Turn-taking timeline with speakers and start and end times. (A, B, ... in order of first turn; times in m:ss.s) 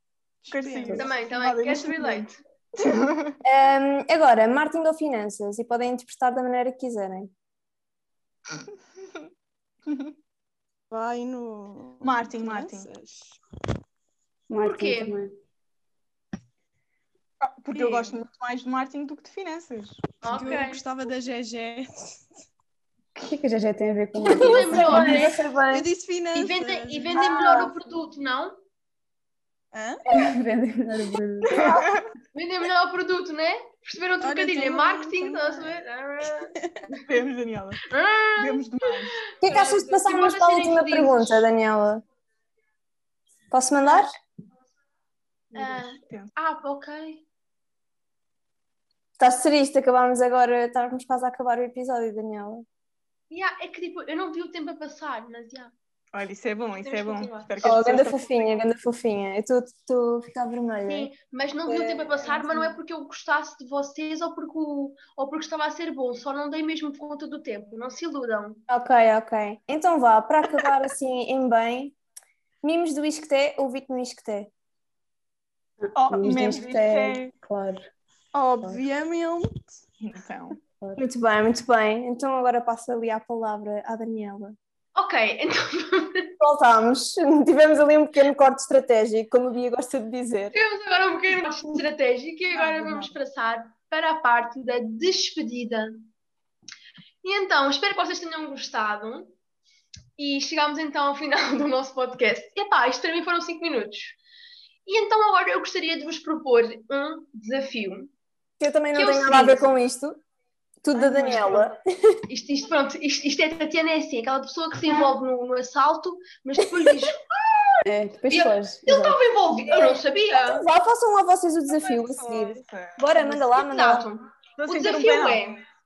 0:00.4-0:01.1 A
0:00.5-0:03.4 B
0:00.9-0:02.4 C
0:03.4-0:07.3 D
0:10.9-0:13.4 A
0:12.0-0:12.9 B
0:14.5-0:15.3 E
0:14.6-0:15.2 C
0:17.4-0:20.1 B
0:17.7-0:18.2 A
0:20.2-0:20.8 C
0:20.3-0:22.4 A
0:23.2-0:25.3 E
0:24.2-0:25.4 C
0:24.3-0:25.9 D
0:25.6-0:27.7 A
0:26.3-0:28.6 C
0:27.2-0:27.7 D
0:29.7-0:30.0 A
0:30.1-0:31.8 E
0:31.5-0:32.0 B
0:32.3-0:37.0 C
0:34.2-0:35.8 A
0:36.5-0:36.9 A
0:37.1-0:37.8 B
0:37.9-0:41.5 C
0:38.4-0:39.2 B
0:39.4-0:42.0 D
0:43.5-0:44.1 D
0:45.5-0:47.2 C
0:49.2-0:52.6 D
0:53.3-0:55.7 C
0:56.1-0:58.5 B
0:56.8-0:57.7 C
0:57.6-1:01.1 D
1:00.9-1:08.6 C
1:01.7-1:02.8 D
1:08.7-1:12.0 D
1:12.6-1:14.5 D
1:15.8-1:17.9 E
1:16.0-1:17.3 B
1:18.3-1:19.8 A
1:20.0-1:20.6 B
1:21.0-1:24.6 D
1:25.0-1:26.4 C
1:26.4-1:30.6 D
1:30.5-1:36.1 C
1:37.2-1:39.3 C
1:40.2-1:44.2 C
1:44.9-1:48.1 C
1:48.6-1:50.2 D
1:48.9-1:49.7 C
1:50.8-1:52.2 D
1:51.0-1:51.6 B
1:52.3-1:57.2 C
1:57.8-1:59.2 E
1:58.3-2:00.7 C
1:59.6-2:04.1 D
2:01.7-2:03.1 B
2:03.2-2:05.6 C
2:04.6-2:05.6 B